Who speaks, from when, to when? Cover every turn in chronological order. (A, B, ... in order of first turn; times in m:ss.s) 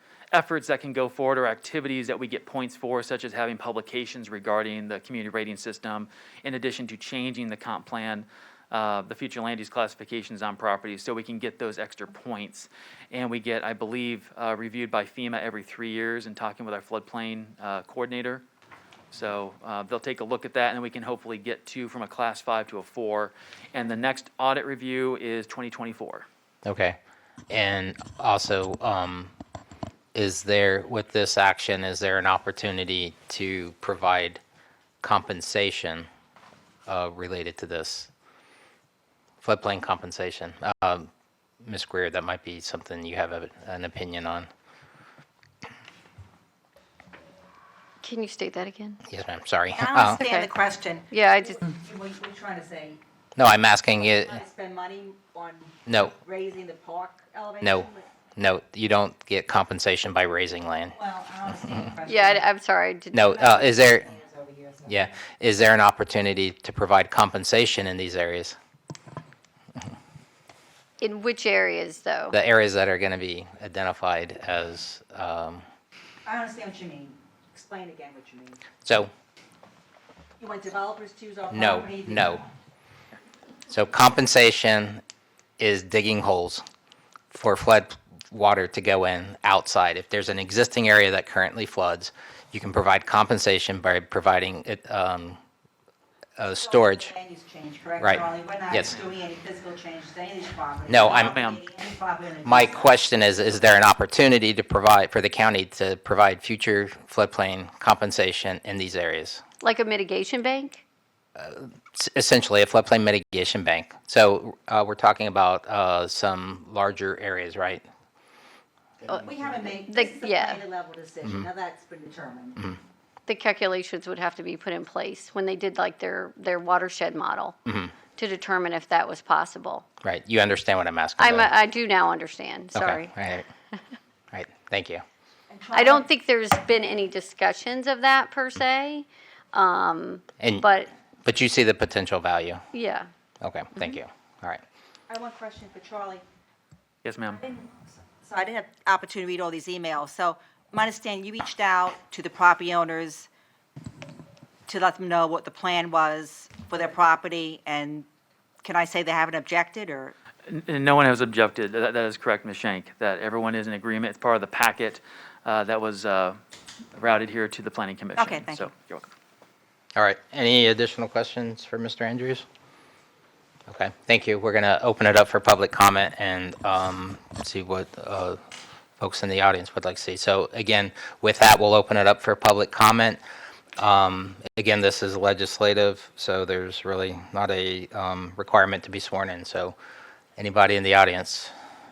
0:00.3-0:18.4 A
0:19.1-0:26.2 A
0:26.6-0:27.0 B
0:27.5-0:29.3 B
0:30.1-0:34.4 B
0:35.0-0:36.1 B
0:36.9-0:38.1 B
0:39.4-0:41.1 B
0:41.6-0:44.5 B
0:48.0-0:49.0 C
0:49.1-0:50.2 B
0:49.7-0:53.0 D
0:50.2-0:50.5 C
0:51.1-0:51.6 C
0:53.4-0:54.4 B
0:54.0-0:58.0 D
0:55.9-0:56.1 B
0:57.6-1:01.0 B
1:01.0-1:02.5 D
1:02.0-1:03.3 C
1:03.1-1:04.1 B
1:03.3-1:05.0 D
1:04.9-1:08.6 B
1:11.0-1:12.4 C
1:12.3-1:15.6 B
1:16.2-1:18.6 D
1:18.8-1:19.1 B
1:20.4-1:22.4 D
1:21.5-1:22.4 B
1:23.7-1:25.0 B
1:25.6-1:26.6 B
1:27.3-1:35.4 B
1:36.4-1:37.1 B
1:36.6-1:42.9 D
1:38.0-1:39.0 B
1:40.9-1:41.4 B
1:41.0-1:41.6 A
1:42.4-1:49.4 B
1:49.6-1:50.8 C
1:51.4-1:57.8 B
1:59.0-2:02.6 D
1:59.8-2:00.6 C
2:03.3-2:07.6 C
2:07.6-2:07.9 B
2:08.1-2:09.8 C
2:10.0-2:11.5 B
2:11.2-2:13.1 C
2:12.7-2:13.5 B
2:14.3-2:15.0 B
2:15.5-2:16.1 D
2:15.7-2:20.9 C
2:20.4-2:20.7 B
2:21.2-2:22.6 B
2:22.7-2:23.1 C
2:23.4-2:24.6 B
2:25.1-2:26.2 D
2:27.0-2:27.4 A
2:27.3-2:33.3 D
2:34.7-2:38.0 D
2:38.6-2:40.1 D
2:40.5-2:46.4 A
2:46.9-2:49.1 A
2:48.2-2:48.7 D
2:50.0-2:52.4 B
2:53.7-2:58.4 B
2:59.0-3:03.2 B
3:03.8-3:09.8 B
3:10.4-3:11.5 B